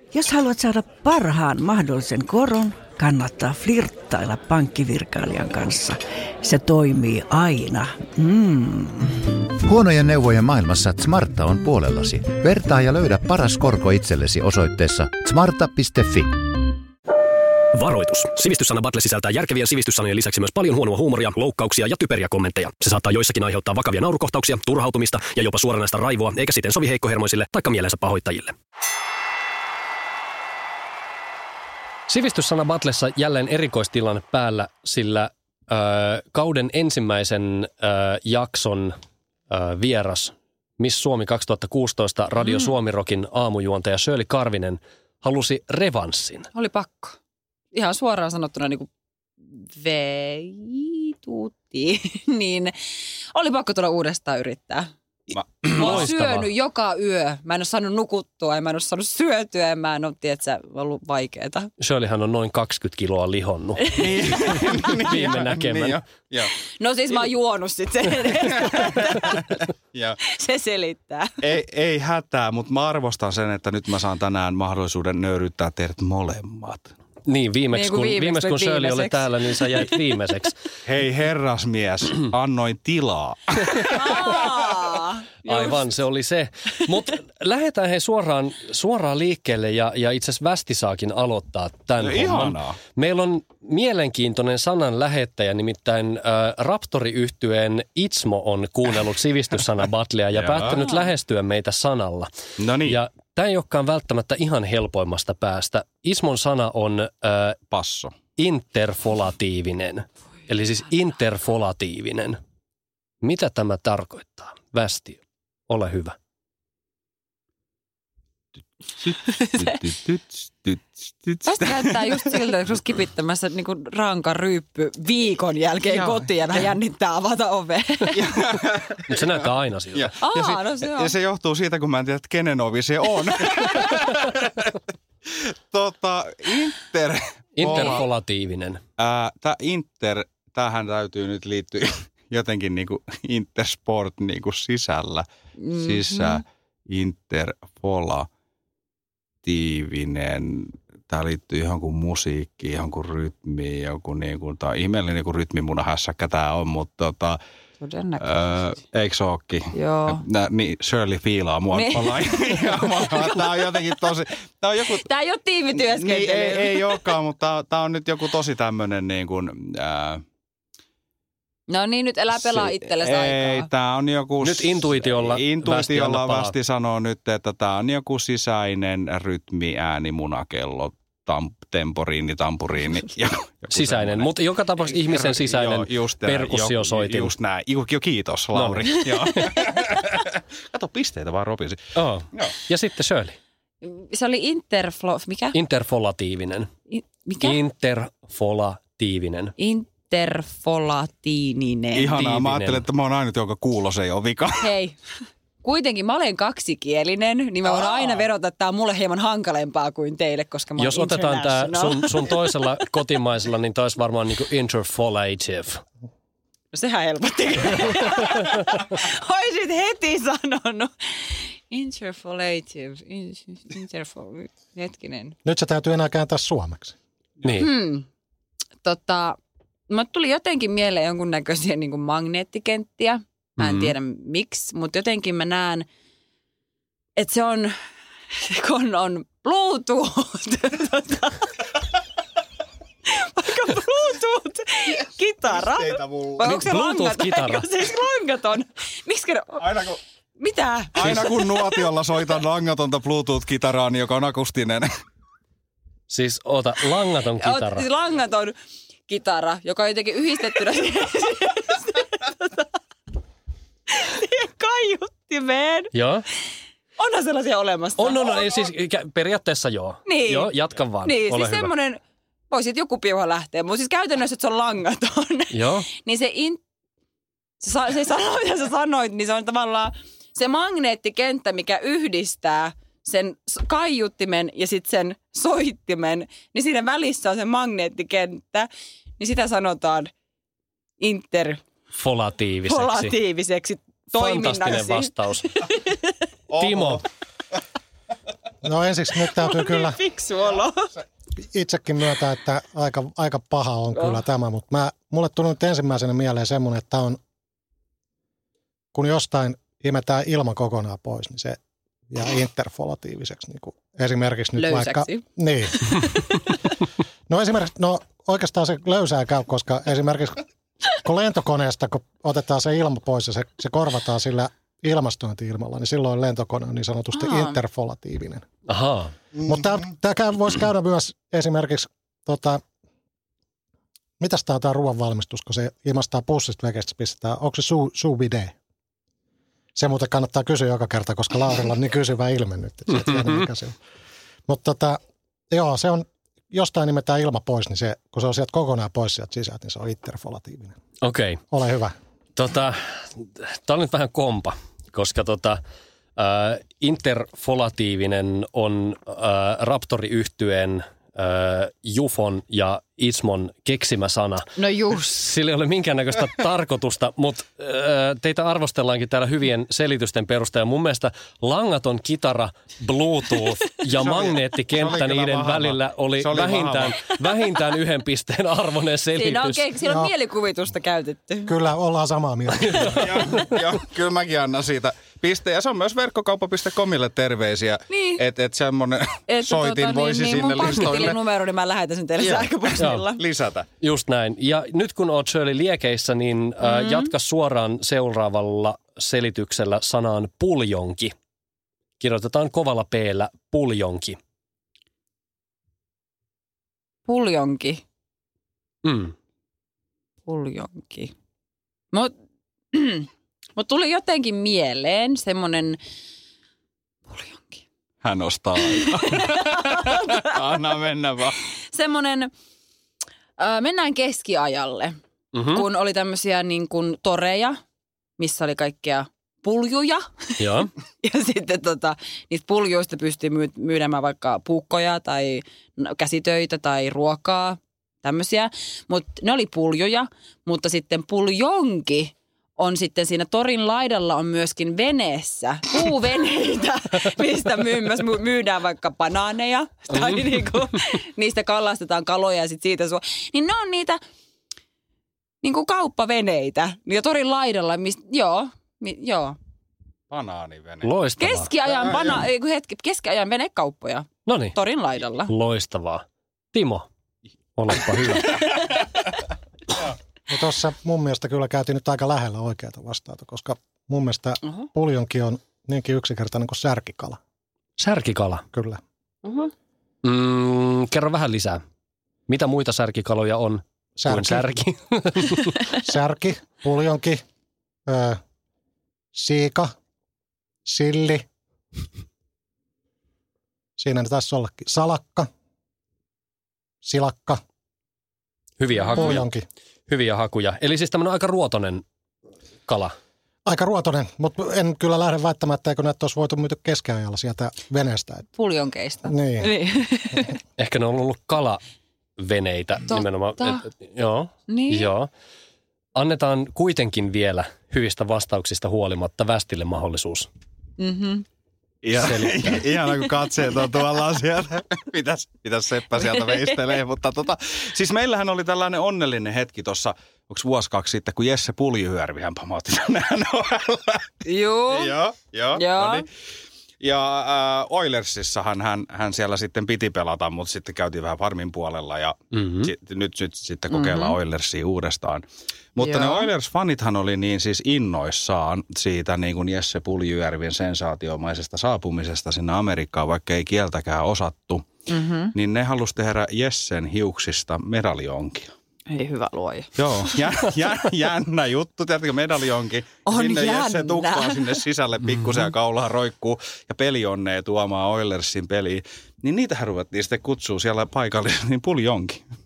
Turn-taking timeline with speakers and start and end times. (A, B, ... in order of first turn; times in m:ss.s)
0:00.1-0:09.2 A
0:09.6-0:16.5 B
0:17.7-0:28.5 C
0:32.1-0:38.9 D
0:39.5-0:46.5 D
0:42.4-0:42.7 E
0:46.5-0:47.2 E
0:47.7-0:48.9 E
0:49.6-0:52.7 E
0:53.3-0:54.9 E
0:55.3-0:56.1 F
0:55.7-0:56.5 D
0:55.7-1:01.7 E
1:01.8-1:06.0 D
1:03.8-1:04.9 E
1:03.9-1:06.5 F
1:06.8-1:09.6 E
1:08.4-1:10.2 F
1:10.2-1:11.4 E
1:11.4-1:16.9 F
1:17.2-1:20.5 D
1:17.7-1:20.0 E
1:20.8-1:24.9 F
1:23.9-1:25.9 E
1:25.4-1:42.3 D
1:32.0-1:32.8 F
1:40.3-1:40.8 F
1:40.7-1:41.0 E
1:42.6-1:43.0 F
1:42.8-1:47.6 D
1:47.7-1:48.1 F
1:48.4-1:52.4 D
1:53.2-1:56.2 D
1:59.0-2:02.4 F
1:59.2-1:59.8 E
2:01.4-2:08.2 E
2:05.9-2:06.7 F
2:08.1-2:09.4 F
2:09.1-2:10.1 D
2:09.9-2:18.0 F
2:10.2-2:11.1 E
2:13.4-2:13.9 E
2:17.6-2:18.8 D
2:17.7-2:18.0 E
2:19.0-2:28.3 F
2:25.6-2:26.4 E
2:29.4-2:37.4 F
2:37.8-2:38.6 E
2:38.2-2:45.0 F
2:39.7-2:40.2 E
2:41.7-2:43.8 E
2:44.9-2:47.1 E
2:45.7-2:50.2 F
2:51.7-2:53.7 E
2:52.3-3:04.3 F
2:54.4-2:56.5 D
3:03.7-3:07.3 D
3:04.8-3:12.6 F
3:08.5-3:09.5 D
3:09.4-3:09.9 E
3:11.9-3:13.4 D
3:13.8-3:15.5 E
3:15.5-3:16.7 D
3:16.9-3:17.6 E
3:17.4-3:19.5 D
3:19.6-3:22.1 E
3:21.9-3:24.7 F
3:22.1-3:22.8 D
3:24.6-3:25.0 E
3:25.6-3:32.5 E
3:27.6-3:28.2 F
3:30.8-3:35.8 D
3:36.7-3:45.4 E
3:45.4-3:47.0 G
3:47.4-3:47.7 D
3:47.6-3:48.0 E
3:48.8-3:49.4 E
3:49.9-3:55.8 E
3:53.6-3:53.9 D
3:57.2-3:57.7 E
3:58.3-4:01.5 E
4:03.0-4:09.6 E
4:05.5-4:06.5 F
4:06.4-4:07.7 D
4:09.6-4:10.0 F
4:10.4-4:11.9 E
4:10.9-4:14.9 F
4:16.1-4:17.9 D
4:17.4-4:18.5 E
4:19.1-4:22.7 E
4:23.9-4:25.9 E
4:25.9-4:26.2 D
4:27.0-4:28.7 E
4:28.0-4:31.7 D
4:30.0-4:30.5 E
4:31.0-4:32.0 E
4:32.5-4:36.6 E
4:35.5-4:35.9 D
4:37.6-4:50.1 E
4:51.0-4:51.6 E
4:51.9-4:53.2 D
4:52.7-4:56.1 E
4:54.1-4:55.5 D
4:56.5-4:57.0 F
4:56.6-4:57.0 D
4:58.6-5:00.0 G
4:59.2-5:00.9 E
5:01.4-5:07.2 G
5:08.9-5:11.6 G
5:12.1-5:15.9 G
5:14.6-5:15.2 E
5:15.9-5:16.3 E
5:17.3-5:28.4 G
5:27.1-5:27.6 E
5:28.7-5:29.1 D
5:29.4-5:32.6 G
5:34.2-5:38.5 G
5:39.7-5:43.8 G
5:43.0-5:43.4 D
5:44.5-5:45.0 G
5:45.5-5:50.8 G
5:51.0-5:51.4 D
5:51.5-5:51.9 G
5:52.4-5:55.6 D
5:56.2-6:04.5 D
6:04.6-6:05.2 E
6:05.0-6:19.6 D
6:14.0-6:17.1 F
6:19.1-6:21.5 E
6:19.8-6:20.1 G
6:21.4-6:23.2 G
6:22.6-6:23.4 D
6:22.9-6:31.2 F
6:27.9-6:28.2 E
6:29.3-6:33.2 E
6:32.2-6:33.7 F
6:32.8-6:33.0 D
6:33.8-6:41.1 D
6:36.6-6:37.1 E
6:42.0-6:44.2 D
6:47.0-6:47.8 E
6:48.8-6:49.1 D
6:50.3-6:51.1 E
6:52.7-6:55.8 E
6:57.1-6:57.6 E
6:58.0-7:01.4 F
6:58.7-7:00.3 E
7:01.7-7:02.3 E
7:03.4-7:05.0 E
7:05.3-7:05.6 D
7:05.5-7:07.6 E
7:08.2-7:34.0 E
7:10.4-7:10.7 D
7:35.4-7:39.4 E
7:40.1-7:40.9 F
7:40.8-7:41.5 D
7:41.2-7:45.3 E
7:41.8-7:42.2 F
7:44.2-7:44.6 D
7:45.3-7:46.9 D
7:47.6-7:48.4 D
7:50.3-7:57.2 G
7:57.8-7:58.4 D
7:58.5-7:58.8 G
7:59.2-7:59.5 E
8:00.0-8:01.6 D
8:02.3-8:05.5 D
8:04.0-8:04.5 G
8:05.8-8:07.2 G
8:07.9-8:08.2 G
8:09.1-8:09.7 G
8:10.6-8:11.2 G
8:13.8-8:15.3 G
8:16.8-8:17.4 G
8:18.6-8:19.3 D
8:18.9-8:19.4 G
8:19.9-8:21.8 D
8:22.7-8:23.0 D
8:23.4-8:28.3 G
8:28.4-8:30.4 E
8:29.0-8:29.5 G
8:30.6-8:31.6 D
8:32.2-8:35.1 D
8:32.9-8:33.6 E
8:34.5-8:34.9 E
8:35.9-8:40.3 D
8:40.8-8:41.2 E
8:41.8-8:54.1 F
8:41.9-8:42.6 D
8:46.0-8:46.6 E
8:54.2-8:54.9 E
8:54.7-8:56.1 F
8:55.5-8:56.0 E
8:56.8-9:14.6 F
9:02.3-9:02.7 D
9:03.7-9:04.2 E
9:05.8-9:06.3 E
9:14.9-9:15.3 E
9:15.3-9:18.5 F
9:18.9-9:20.3 E
9:19.8-9:32.2 F
9:23.1-9:24.6 E